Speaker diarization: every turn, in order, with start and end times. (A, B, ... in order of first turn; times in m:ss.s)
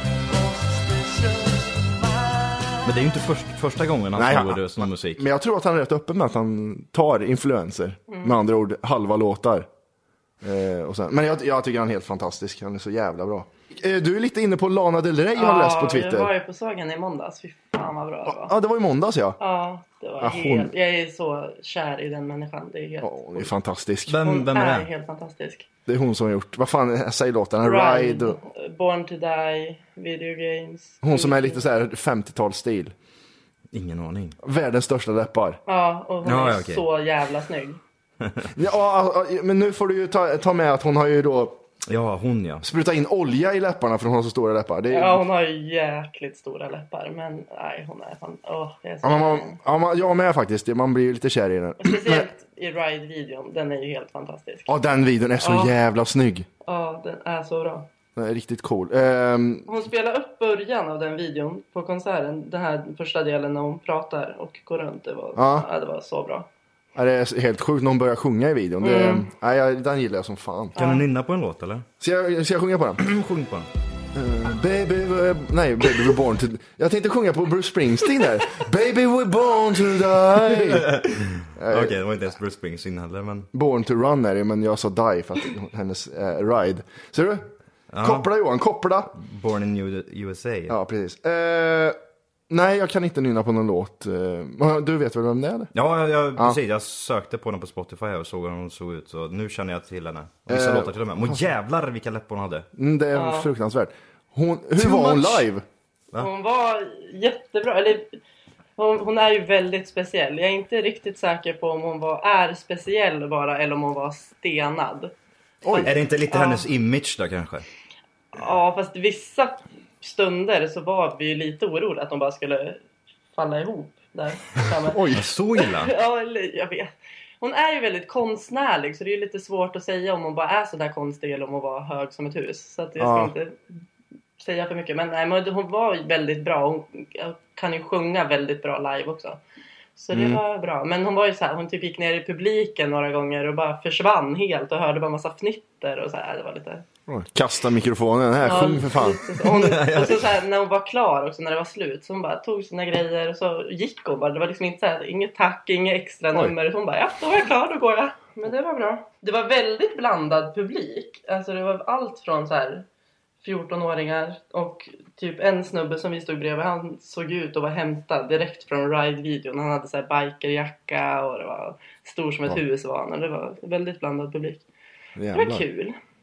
0:02.8-0:05.2 A
0:04.2-0:09.7 B
0:08.1-0:08.4 C
0:10.4-0:16.3 B
0:15.3-0:18.5 C
0:18.3-0:19.4 B
0:19.4-0:23.5 C
0:20.2-0:20.7 B
0:23.0-0:24.2 B
0:24.1-0:24.9 A
0:24.2-0:25.6 C
0:25.9-0:28.4 B
0:27.6-0:31.6 C
0:31.0-0:32.9 B
0:33.7-0:34.4 A
0:34.4-0:35.6 B
0:35.7-0:37.8 C
0:36.2-0:36.8 A
0:38.5-0:41.6 B
0:41.8-0:42.6 A
0:42.6-0:45.2 B
0:44.9-0:49.6 C
0:49.0-0:52.3 B
0:51.8-0:54.7 C
0:54.7-0:56.5 B
0:55.4-0:55.7 C
0:56.6-0:57.9 C
0:58.2-0:59.7 B
0:59.7-1:06.5 C
1:05.4-1:05.7 B
1:06.9-1:10.8 B
1:08.8-1:09.3 C
1:10.8-1:11.0 C
1:10.8-1:11.8 A
1:12.0-1:13.0 B
1:13.0-1:13.7 A
1:14.1-1:22.0 B
1:20.5-1:23.5 A
1:23.5-1:27.5 B
1:27.9-1:28.3 A
1:28.0-1:29.1 B
1:29.2-1:30.8 A
1:30.7-1:32.0 B
1:32.5-1:35.7 B
1:35.7-1:42.7 A
1:40.5-1:41.4 B
1:42.8-1:45.6 B
1:43.1-1:43.5 C
1:44.8-1:45.3 C
1:46.2-1:48.2 C
1:48.8-1:55.1 C
1:55.6-1:55.9 B
1:55.7-1:57.6 A
1:56.3-1:56.6 C
1:58.3-2:02.8 C
2:03.3-2:06.9 C
2:04.9-2:05.3 B
2:05.1-2:05.9 A
2:07.4-2:13.6 C
2:13.0-2:13.3 B
2:14.4-2:19.4 C
2:20.0-2:26.8 C
2:20.1-2:20.4 B
2:27.1-2:29.2 B
2:28.4-2:42.8 C
2:29.4-2:30.3 A
2:43.4-2:54.6 C
2:55.2-2:55.6 B
2:55.3-2:56.0 C